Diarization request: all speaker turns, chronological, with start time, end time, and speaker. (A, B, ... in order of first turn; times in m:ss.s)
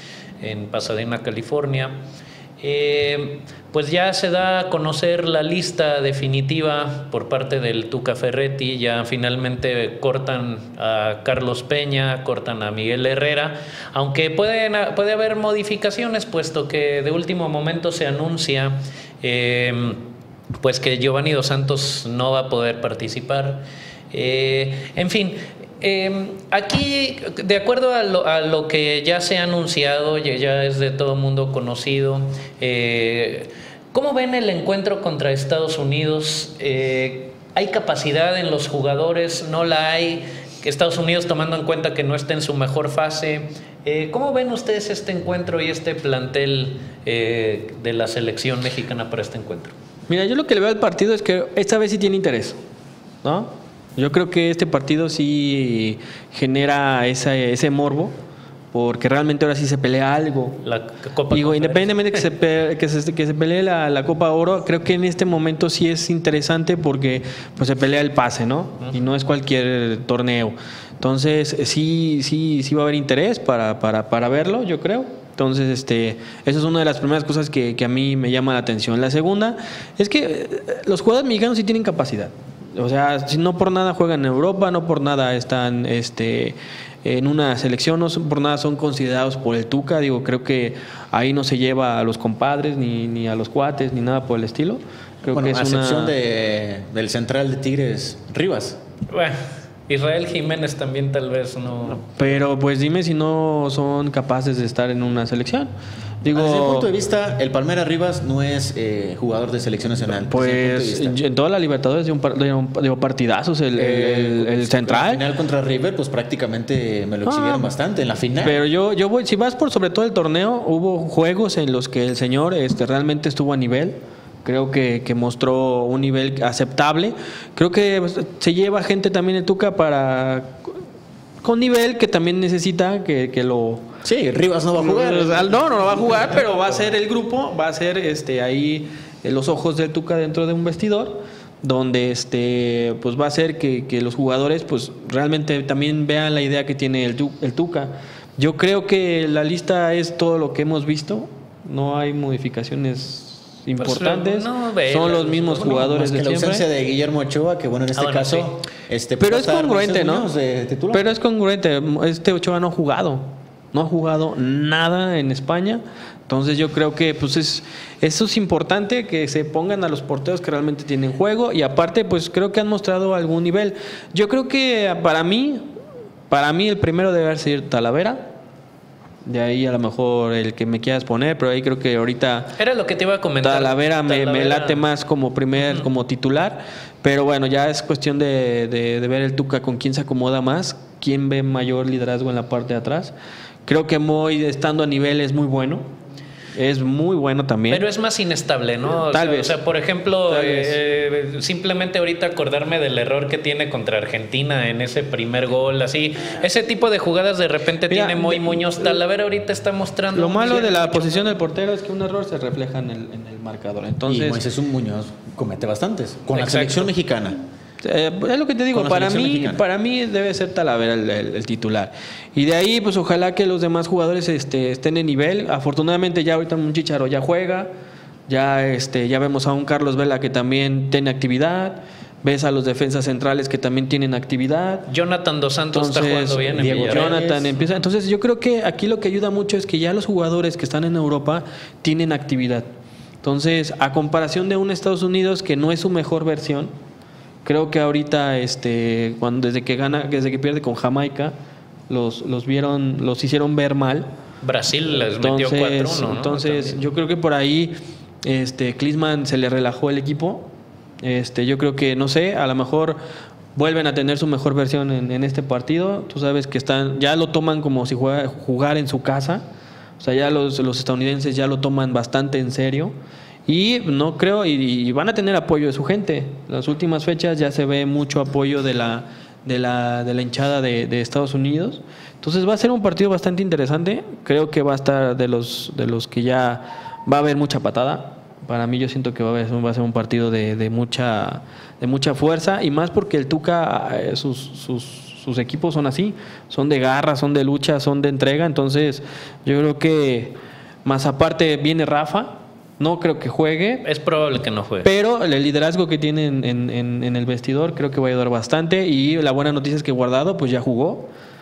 0:00.4-0:02.0 A
0:02.6-0:20.0 A
0:20.6-0:49.7 A
0:50.1-0:52.6 B
0:53.2-0:58.2 B
0:58.7-1:00.6 B
1:00.6-1:02.2 A
1:01.3-1:36.2 B
1:35.3-1:38.8 C
1:39.1-1:39.4 A
1:39.9-1:42.2 A
1:42.2-1:45.7 B
1:46.2-1:46.9 B
1:46.2-1:51.2 C
1:50.1-1:55.2 B
1:53.8-1:58.6 C
1:57.2-1:57.7 B
1:58.4-2:10.7 B
2:11.4-2:13.8 B
2:14.0-2:15.7 C
2:14.8-2:36.6 B
2:33.8-2:35.8 A
2:35.6-2:41.1 C
2:37.9-2:38.5 A
2:39.2-2:40.3 B
2:40.9-2:55.7 B
2:56.3-2:58.3 B
2:59.2-3:02.6 B
3:02.6-3:04.8 A
3:03.4-3:13.1 B
3:05.6-3:05.8 A
3:13.7-3:15.9 B
3:16.6-3:17.8 B
3:17.7-3:31.3 A
3:19.1-3:19.6 B
3:20.3-3:20.8 B
3:27.9-3:29.0 B
3:30.1-3:34.4 B
3:34.1-3:37.4 C
3:36.3-3:36.9 A
3:37.8-3:47.7 B
3:38.7-3:39.6 C
3:48.3-3:54.9 B
3:54.9-3:57.2 A
3:55.7-4:02.7 B
3:56.5-3:57.5 C
4:03.2-4:06.7 B
4:07.4-4:11.4 B
4:11.9-4:14.1 B
4:14.4-4:16.8 A
4:15.0-4:17.7 B
4:18.2-4:20.5 B
4:21.0-4:23.0 B
4:23.6-4:29.4 B
4:30.0-4:32.9 B
4:33.5-5:03.8 B
5:03.8-5:04.9 A
5:04.8-5:11.1 B